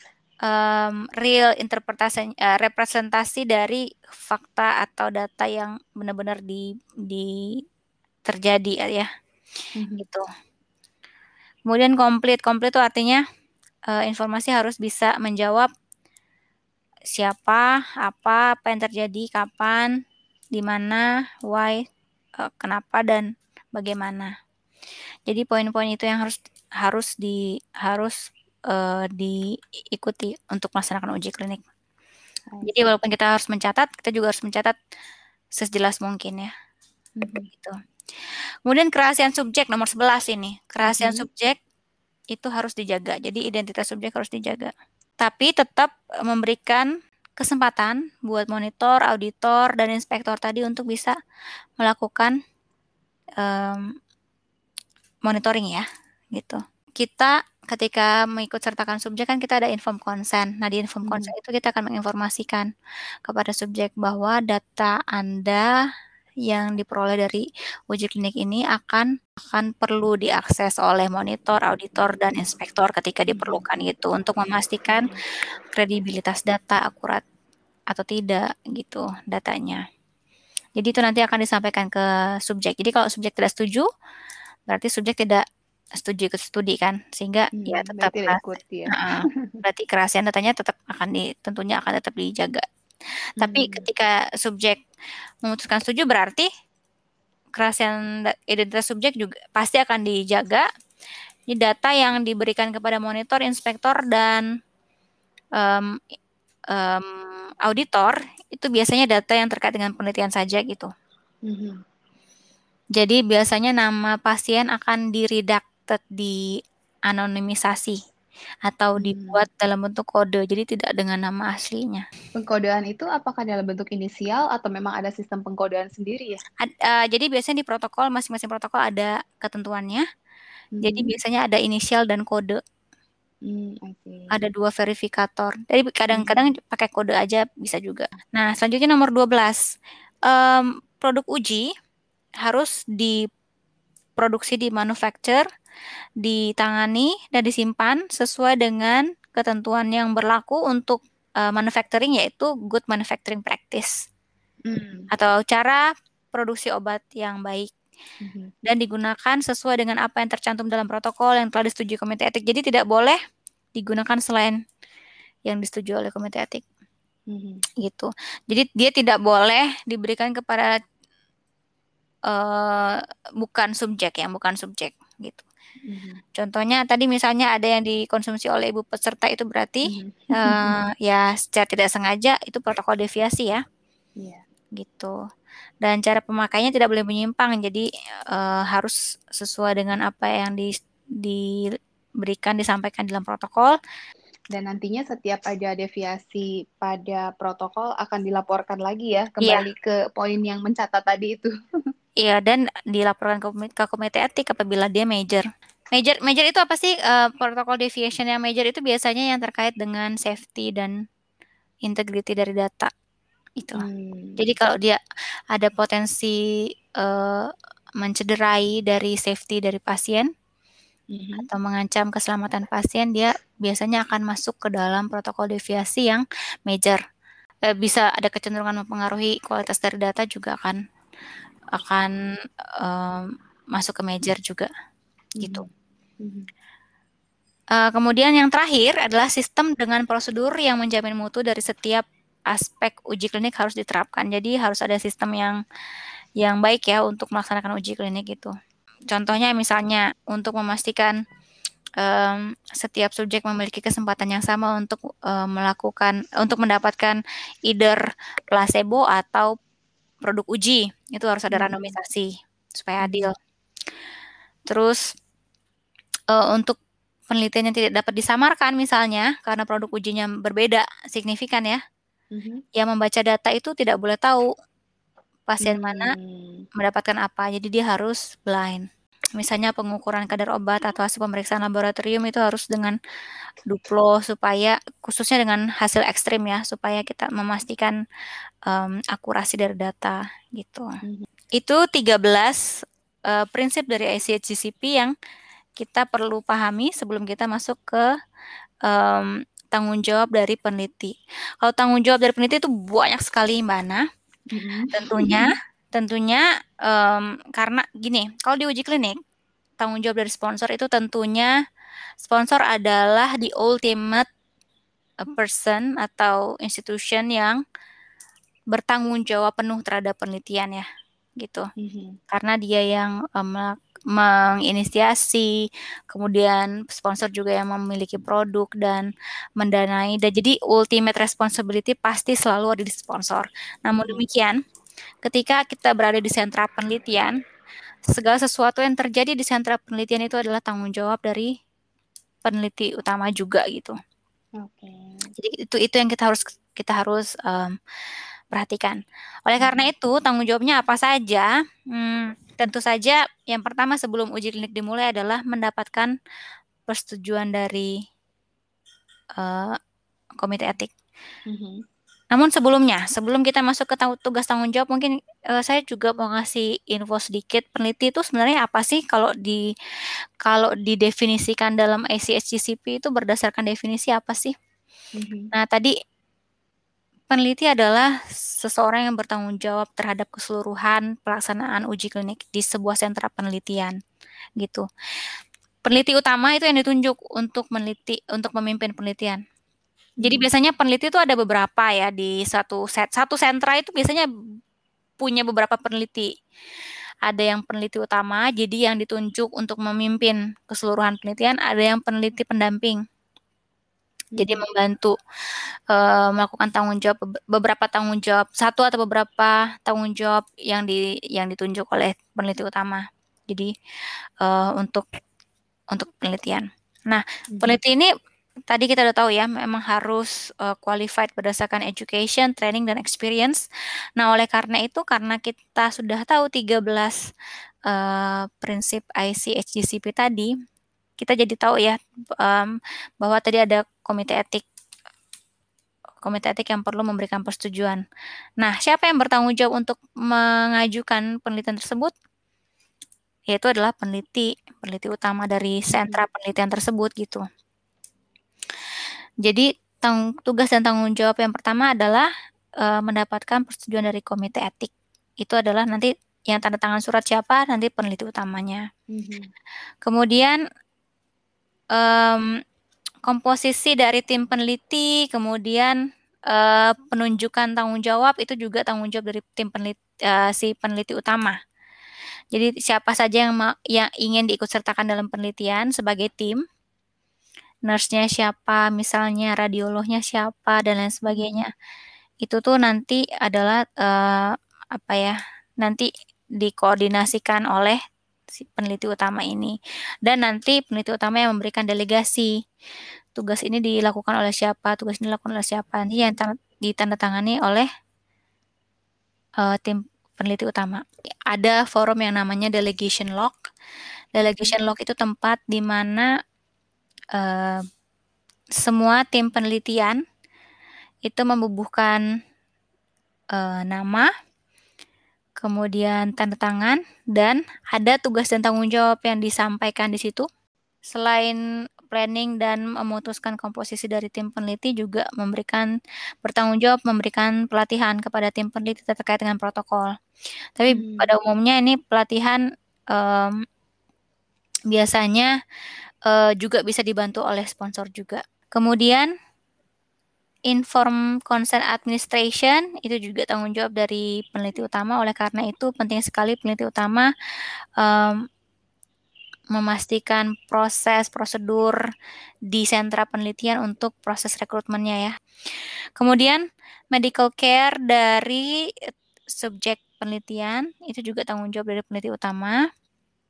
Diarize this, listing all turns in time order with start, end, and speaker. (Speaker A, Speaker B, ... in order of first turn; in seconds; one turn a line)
Speaker A: 0.5-7.3
Speaker A: 8.3-9.1
Speaker B: 9.8-10.0
Speaker A: 11.7-13.2
Speaker A: 13.9-15.7
Speaker A: 17.1-19.9
Speaker A: 20.5-21.8
Speaker A: 22.4-24.3
Speaker A: 25.3-28.1
Speaker A: 28.7-29.4
Speaker A: 29.9-31.6
Speaker B: 32.5-32.9
Speaker A: 32.6-34.8
Speaker A: 35.6-36.5
Speaker B: 37.2-37.5
Speaker A: 38.7-41.6
Speaker B: 40.8-41.2
Speaker A: 42.3-51.1
Speaker A: 51.8-52.4
Speaker A: 53.4-53.9
Speaker A: 55.3-62.7
Speaker B: 61.0-61.3
Speaker A: 63.3-65.7
Speaker A: 66.5-75.1
Speaker B: 73.3-73.6
Speaker A: 75.8-77.2
Speaker A: 77.9-79.8
Speaker A: 80.8-83.9
Speaker A: 84.7-85.4
Speaker A: 86.0-92.6
Speaker B: 87.6-89.6
Speaker B: 93.4-93.9
Speaker A: 93.4-94.8
Speaker A: 95.5-96.5
Speaker A: 97.6-100.7
Speaker A: 101.5-104.5
Speaker A: 105.6-106.0
Speaker A: 106.7-110.9
Speaker B: 111.5-111.8
Speaker A: 113.0-116.4
Speaker A: 117.1-118.0
Speaker A: 118.7-122.0
Speaker B: 119.0-119.4
Speaker B: 122.4-126.4
Speaker A: 126.6-130.1
Speaker B: 130.8-131.1
Speaker A: 130.8-132.6
Speaker B: 133.5-134.3
Speaker A: 134.3-139.6
Speaker B: 136.1-136.4
Speaker A: 140.3-141.7
Speaker A: 142.4-143.2
Speaker A: 144.2-145.4
Speaker A: 146.2-153.9
Speaker B: 154.7-155.1
Speaker A: 155.1-157.7
Speaker B: 158.2-158.5
Speaker A: 158.6-163.2
Speaker A: 163.8-164.6
Speaker A: 165.5-166.6
Speaker B: 167.3-167.6
Speaker A: 167.8-170.8
Speaker A: 172.3-175.5
Speaker B: 175.9-176.2
Speaker A: 176.4-183.6
Speaker B: 179.9-180.8
Speaker A: 184.8-185.2
Speaker A: 185.8-190.7
Speaker A: 192.2-193.8
Speaker B: 194.5-201.5
Speaker A: 202.2-210.9
Speaker A: 211.8-212.9
Speaker A: 213.6-213.8
Speaker B: 213.8-214.4
Speaker A: 214.4-215.0
Speaker A: 215.5-216.4
Speaker A: 217.0-217.5
Speaker A: 218.0-220.3
Speaker B: 221.1-221.5
Speaker A: 221.4-227.0
Speaker A: 227.7-230.8
Speaker A: 231.8-232.1
Speaker A: 232.8-234.7
Speaker B: 235.4-235.7
Speaker A: 235.4-235.7
Speaker B: 236.2-236.5
Speaker A: 237.8-245.6
Speaker A: 246.4-248.5
Speaker A: 249.1-251.2
Speaker A: 252.0-259.5
Speaker A: 260.3-263.3
Speaker B: 261.5-261.9
Speaker B: 263.0-263.3
Speaker A: 264.7-265.0
Speaker A: 266.3-266.8
Speaker A: 267.3-271.8
Speaker B: 272.3-272.6
Speaker A: 272.8-274.5
Speaker A: 275.5-276.1
Speaker B: 275.6-276.7
Speaker A: 276.8-278.9
Speaker A: 279.4-283.0
Speaker A: 283.7-288.0
Speaker A: 288.7-290.9
Speaker A: 291.6-292.6
Speaker A: 293.3-295.1
Speaker A: 295.8-298.0
Speaker A: 298.9-304.0
Speaker B: 304.5-305.5
Speaker A: 304.9-309.2
Speaker A: 309.8-311.5
Speaker A: 312.2-314.3
Speaker A: 315.2-317.6
Speaker A: 318.7-320.9
Speaker A: 321.4-321.7
Speaker B: 321.8-322.2
Speaker A: 322.3-325.5
Speaker A: 326.1-334.6
Speaker A: 335.2-337.4
Speaker A: 338.1-341.5
Speaker A: 342.4-344.0
Speaker B: 344.6-345.3
Speaker A: 345.4-347.8
Speaker A: 348.5-356.1
Speaker B: 349.6-349.9
Speaker A: 356.9-357.9
Speaker A: 359.4-359.8
Speaker A: 360.4-360.9
Speaker B: 361.5-361.8
Speaker A: 362.3-369.6
Speaker A: 370.5-374.6
Speaker B: 375.2-375.5
Speaker A: 375.5-375.9
Speaker A: 377.3-378.1
Speaker A: 378.6-384.0
Speaker A: 384.6-384.8
Speaker A: 385.9-389.4
Speaker A: 390.2-394.3
Speaker A: 395.2-396.3
Speaker A: 397.2-403.0
Speaker B: 404.4-404.6
Speaker A: 404.4-405.2
Speaker A: 405.9-413.7
Speaker A: 414.4-415.0
Speaker A: 415.9-418.1
Speaker B: 417.5-417.8
Speaker A: 418.7-423.6
Speaker A: 424.2-427.2
Speaker A: 427.9-430.5
Speaker A: 431.2-434.6
Speaker A: 436.2-438.0
Speaker A: 438.6-442.1
Speaker A: 443.5-447.4
Speaker B: 445.9-446.2
Speaker A: 449.4-452.3
Speaker A: 452.8-454.9
Speaker A: 455.4-458.9
Speaker B: 459.1-459.5
Speaker A: 460.1-460.6
Speaker A: 461.9-462.5
Speaker A: 463.2-466.0
Speaker A: 466.5-471.6
Speaker A: 472.5-476.6
Speaker A: 477.9-481.7
Speaker A: 482.4-486.1
Speaker A: 486.6-488.0
Speaker A: 488.6-489.8
Speaker A: 490.3-492.5
Speaker A: 493.4-497.9
Speaker A: 499.6-503.6
Speaker A: 504.4-506.3
Speaker B: 504.4-504.8
Speaker A: 507.4-507.8
Speaker A: 508.8-510.2
Speaker A: 511.2-512.2
Speaker A: 513.5-514.3
Speaker A: 515.6-520.5
Speaker A: 521.1-521.6
Speaker A: 522.1-525.9
Speaker A: 526.4-530.1
Speaker A: 530.8-532.6
Speaker B: 530.9-531.3
Speaker A: 533.1-533.6
Speaker A: 534.9-535.5
Speaker A: 536.3-539.3
Speaker A: 540.7-547.3
Speaker A: 548.0-548.4
Speaker A: 549.7-552.0
Speaker A: 552.7-555.3
Speaker A: 556.2-558.7
Speaker A: 559.5-562.8